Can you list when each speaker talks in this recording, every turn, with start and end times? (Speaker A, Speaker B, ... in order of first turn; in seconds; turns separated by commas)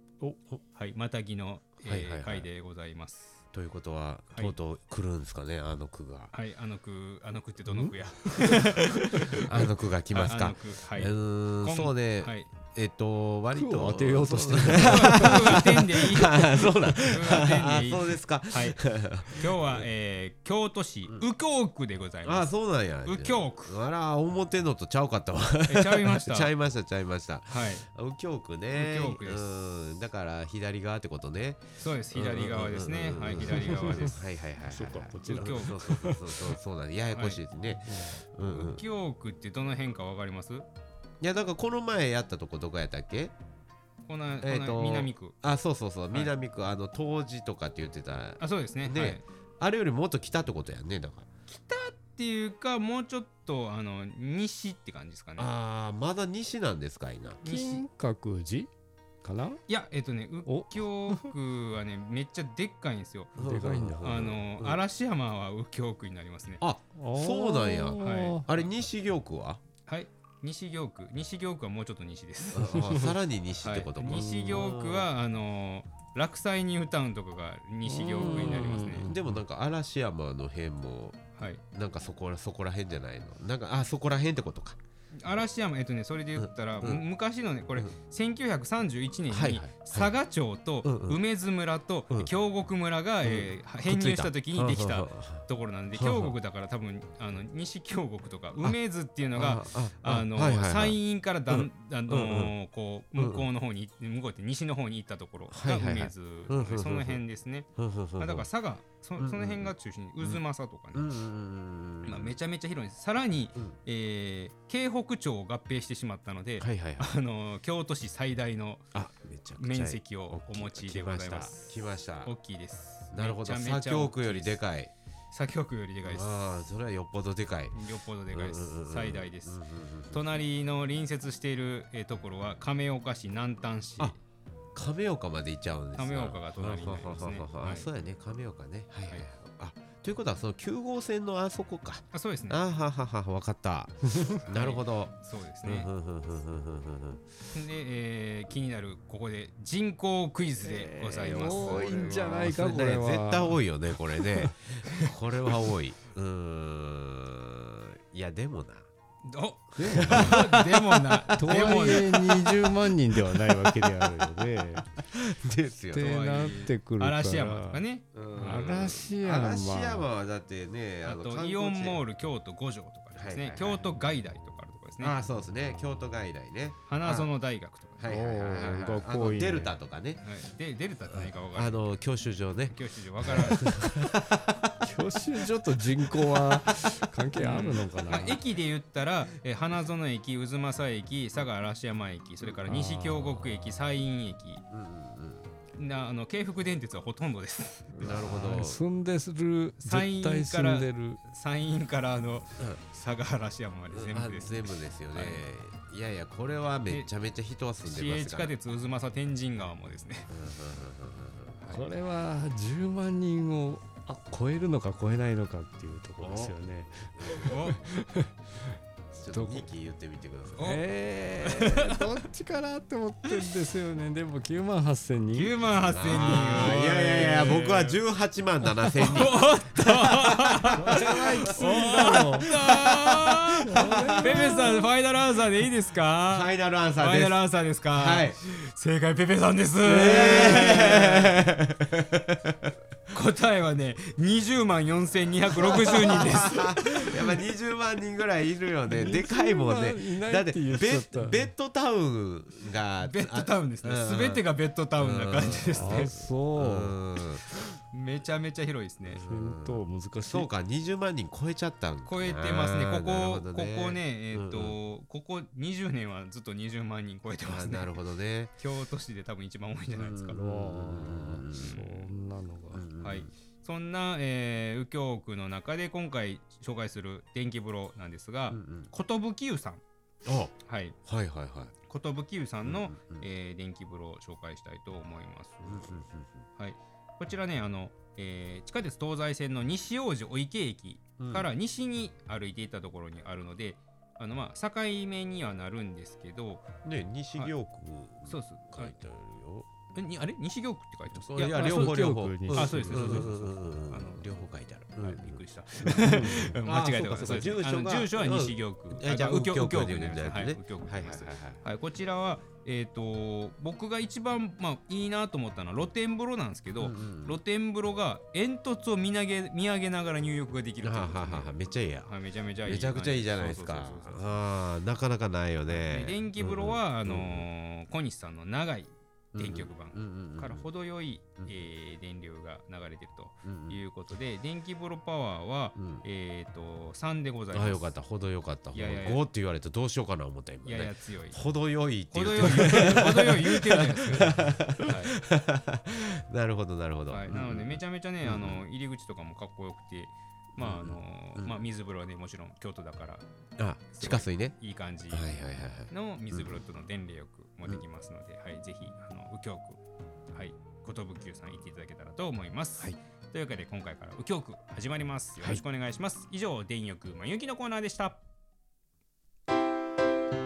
Speaker A: 0.2-0.6, Speaker B: 0.7-3.4, Speaker A: 1.8-2.5, Speaker A: 3.5-6.3, Speaker B: 6.3-9.5, Speaker C: 7.7-9.4, Speaker A: 9.3-19.9, Speaker B: 10.1-12.5, Speaker C: 13.5-15.7, Speaker B: 14.8-22.5, Speaker A: 22.2-38.8, Speaker B: 23.0-23.7, Speaker B: 25.6-26.5, Speaker B: 27.5-27.8, Speaker B: 28.7-29.6, Speaker B: 31.8-34.2, Speaker C: 33.5-34.1, Speaker C: 34.7-36.5, Speaker B: 35.2-36.1, Speaker B: 37.1-37.4, Speaker C: 37.9-38.2, Speaker B: 38.4-40.6, Speaker A: 41.2-43.3, Speaker B: 44.1-45.3, Speaker A: 44.4-51.3, Speaker B: 48.4-49.2, Speaker B: 51.5-55.5, Speaker A: 55.4-57.4, Speaker B: 57.4-57.8, Speaker C: 57.4-58.7, Speaker C: 59.2-59.6, Speaker B: 59.7-63.3, Speaker C: 60.5-61.3, Speaker A: 63.4-64.8, Speaker C: 63.4-64.2, Speaker B: 64.0-66.6, Speaker A: 66.6-69.6, Speaker C: 66.9-68.5, Speaker B: 68.0-68.4, Speaker B: 69.8-72.8, Speaker A: 72.5-75.1, Speaker B: 73.6-79.1, Speaker C: 74.1-74.6, Speaker C: 77.8-79.4, Speaker A: 78.2-81.2, Speaker A: 81.7-84.8, Speaker B: 85.2-107.7, Speaker A: 86.4-87.0, Speaker A: 89.3-90.1, Speaker A: 90.8-91.2, Speaker A: 93.2-96.3, Speaker A: 99.3-102.5, Speaker A: 103.2-103.5, Speaker A: 105.5-107.2, Speaker A: 107.8-108.5, Speaker B: 108.2-111.1, Speaker A: 109.2-110.4, Speaker A: 110.9-112.3, Speaker B: 112.0-118.8, Speaker A: 116.6-117.1, Speaker A: 118.9-122.3, Speaker B: 119.6-124.6, Speaker A: 123.1-124.9, Speaker B: 125.3-126.5, Speaker A: 126.0-127.8, Speaker B: 127.7-129.6, Speaker A: 128.3-130.2, Speaker B: 130.1-134.2, Speaker A: 134.8-147.3, Speaker B: 135.9-137.9, Speaker B: 142.1-142.6, Speaker B: 144.5-145.9, Speaker B: 147.5-152.3, Speaker C: 150.6-153.6, Speaker A: 151.2-158.8, Speaker B: 159.2-162.2, Speaker C: 159.8-160.5, Speaker A: 159.8-166.4, Speaker C: 161.3-164.9, Speaker C: 165.9-167.8, Speaker B: 166.0-168.7, Speaker A: 168.1-172.0, Speaker C: 168.4-170.1, Speaker B: 171.0-175.1, Speaker A: 173.1-173.9, Speaker A: 175.0-177.3, Speaker B: 176.9-178.1, Speaker A: 178.0-180.2, Speaker C: 178.1-179.7, Speaker B: 180.2-181.9, Speaker A: 181.1-182.8, Speaker B: 182.7-183.6, Speaker A: 183.3-184.4, Speaker C: 184.8-188.4, Speaker A: 186.3-186.6, Speaker B: 187.4-194.6, Speaker C: 192.7-193.3, Speaker A: 194.7-195.5, Speaker B: 195.8-197.9, Speaker C: 197.9-201.2, Speaker A: 198.0-198.8, Speaker B: 199.8-205.4, Speaker A: 203.9-208.5, Speaker B: 207.8-210.3, Speaker A: 210.3-211.8, Speaker C: 211.7-218.3, Speaker A: 216.2-216.6, Speaker A: 217.2-217.6, Speaker B: 217.5-217.8, Speaker A: 219.2-220.7, Speaker C: 219.3-219.7, Speaker B: 220.6-220.8, Speaker C: 220.6-226.9, Speaker B: 221.4-221.8, Speaker B: 225.3-228.0, Speaker A: 225.8-234.8, Speaker B: 229.0-241.4, Speaker C: 230.7-232.5, Speaker C: 233.6-234.8, Speaker A: 236.3-238.4, Speaker A: 239.8-242.7, Speaker B: 243.1-247.2, Speaker A: 245.5-254.4, Speaker C: 248.9-251.5, Speaker B: 253.0-256.1, Speaker A: 255.0-257.4, Speaker C: 255.7-257.0, Speaker B: 257.9-259.2, Speaker A: 259.1-264.8, Speaker C: 259.1-260.5, Speaker B: 262.1-267.9, Speaker A: 267.4-268.5, Speaker B: 268.6-270.4, Speaker A: 269.9-271.8, Speaker C: 270.4-272.8, Speaker B: 271.6-272.1, Speaker A: 272.7-273.3, Speaker B: 273.0-279.8, Speaker A: 278.5-278.9, Speaker A: 280.2-280.5, Speaker B: 280.6-280.9, Speaker A: 281.1-281.7, Speaker B: 281.9-286.0, Speaker A: 282.6-283.2, Speaker A: 285.7-286.4, Speaker B: 286.6-296.7, Speaker A: 291.2-291.5, Speaker A: 296.8-299.7, Speaker B: 298.3-298.9, Speaker B: 299.9-304.3, Speaker A: 301.1-311.6, Speaker C: 301.5-303.4, Speaker B: 305.0-324.2, Speaker A: 316.8-317.4, Speaker A: 320.8-322.1, Speaker A: 322.7-327.4, Speaker B: 325.7-337.9, Speaker A: 329.3-330.7, Speaker A: 333.4-333.8, Speaker A: 335.8-336.0, Speaker A: 337.5-348.6, Speaker B: 338.7-339.2, Speaker B: 340.6-341.4, Speaker B: 342.1-345.1, Speaker B: 347.1-353.2, Speaker A: 350.6-351.6, Speaker A: 353.6-354.6, Speaker B: 353.9-355.2, Speaker A: 355.1-356.6, Speaker B: 355.9-359.8, Speaker B: 360.3-368.2